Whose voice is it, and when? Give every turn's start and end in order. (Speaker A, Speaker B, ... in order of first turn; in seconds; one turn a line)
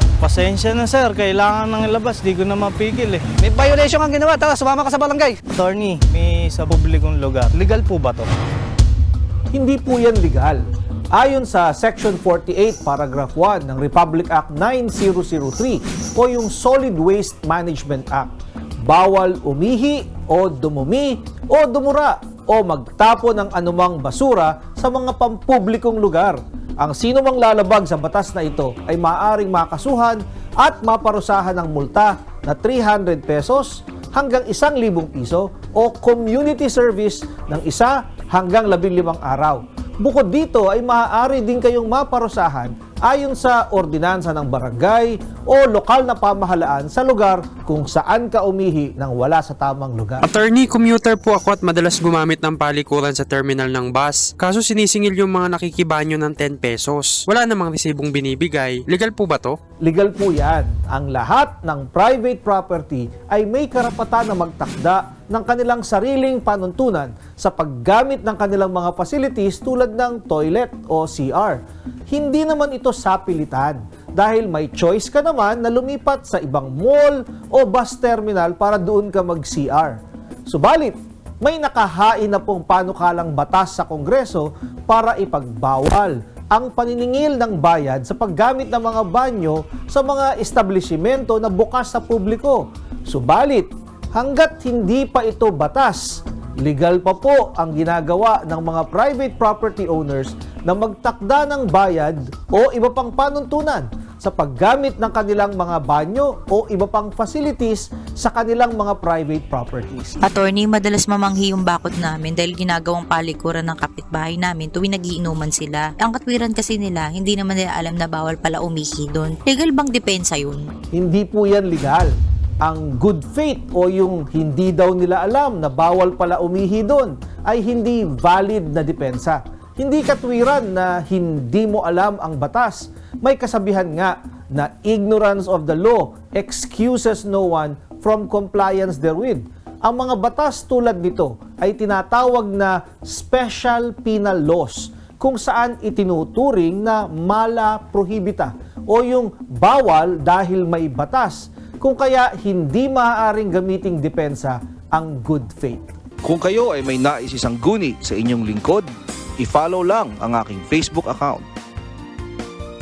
Speaker A: 0.2-3.6
Speaker B: 3.4-5.5
Speaker A: 5.5-8.3
Speaker C: 9.5-18.3
Speaker C: 18.9-50.2
Speaker D: 50.2-59.6
Speaker C: 59.8-110.2
Speaker E: 110.2-120.7
Speaker C: 120.9-155.9
Speaker F: 156.2-161.4